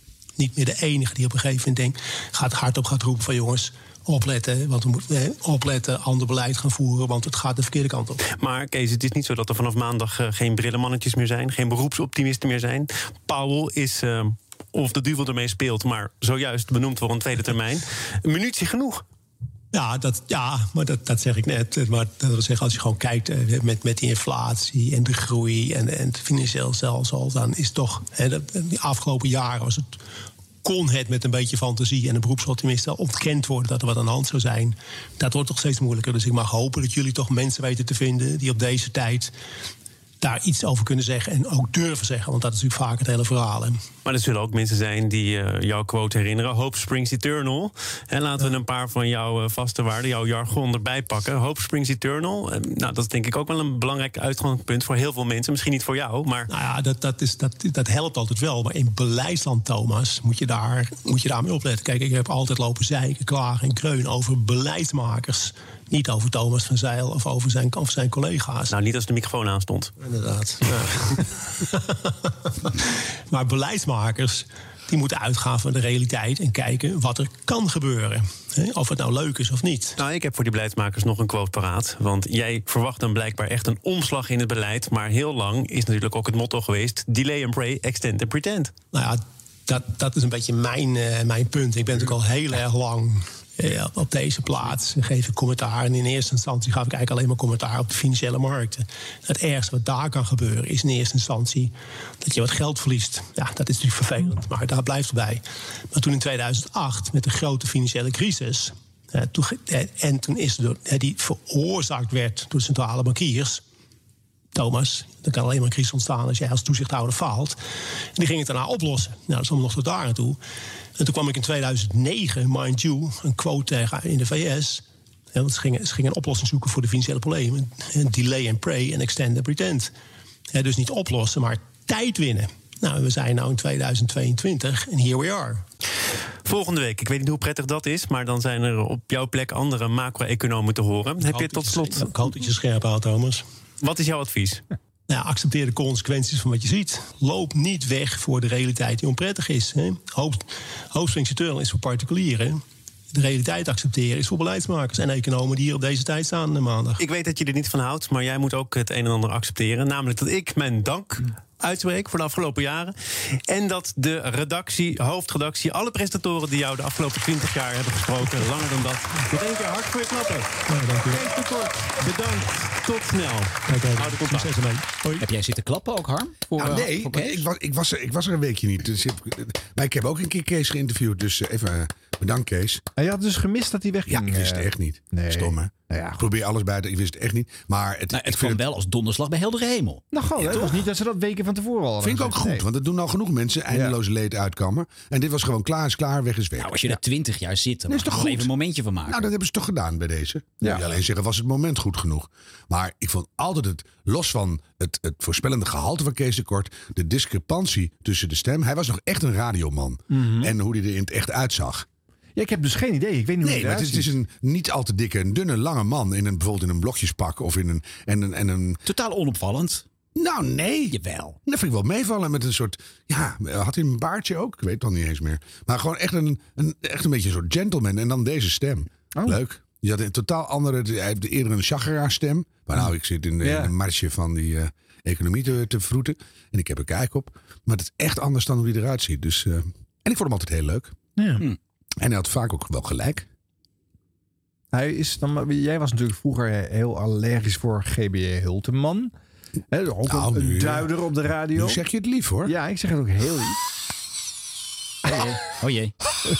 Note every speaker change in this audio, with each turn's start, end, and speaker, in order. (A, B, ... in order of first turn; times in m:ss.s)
0:00.4-0:08.2 A
0:08.2-0:19.0 B
0:19.7-0:30.0 A
0:30.6-0:39.3 A
0:40.2-0:43.9 A
0:44.0-0:56.5 B
0:56.5-1:08.8 A
1:08.7-1:09.9 B
1:10.0-1:12.3 A
1:13.3-1:20.0 A
1:20.0-1:28.7 B
1:28.9-1:53.6 A
1:54.5-1:57.6 A
1:58.2-2:00.4 A
2:01.0-2:09.9 A
2:10.5-2:15.6 A
2:16.4-2:22.3 B
2:21.3-2:23.4 A
2:23.8-2:24.6 B
2:25.1-2:37.0 A
2:37.0-2:50.5 B
2:50.7-2:51.3 A
2:51.1-2:54.5 B
2:53.6-2:55.1 A
2:55.2-2:57.4 C
2:56.6-3:02.8 D
3:03.0-3:06.2 E
3:04.1-3:08.6 D
3:08.1-3:10.8 C
3:10.1-3:12.7 E
3:12.0-3:16.8 D
3:13.7-3:14.0 E
3:16.6-3:19.2 C
3:17.9-3:18.5 D
3:19.1-3:31.9 D
3:30.1-3:30.5 E
3:32.4-3:34.1 E
3:33.4-3:38.8 D
3:38.8-3:39.8 C
3:40.2-4:01.0 D
3:40.9-3:41.4 C
3:53.4-3:53.7 E
4:01.2-4:01.5 E
4:02.0-4:03.3 D
4:04.7-4:09.1 E
4:09.7-4:11.8 E
4:10.1-4:10.9 D
4:11.6-4:12.5 D
4:12.4-4:13.6 E
4:15.0-4:15.9 C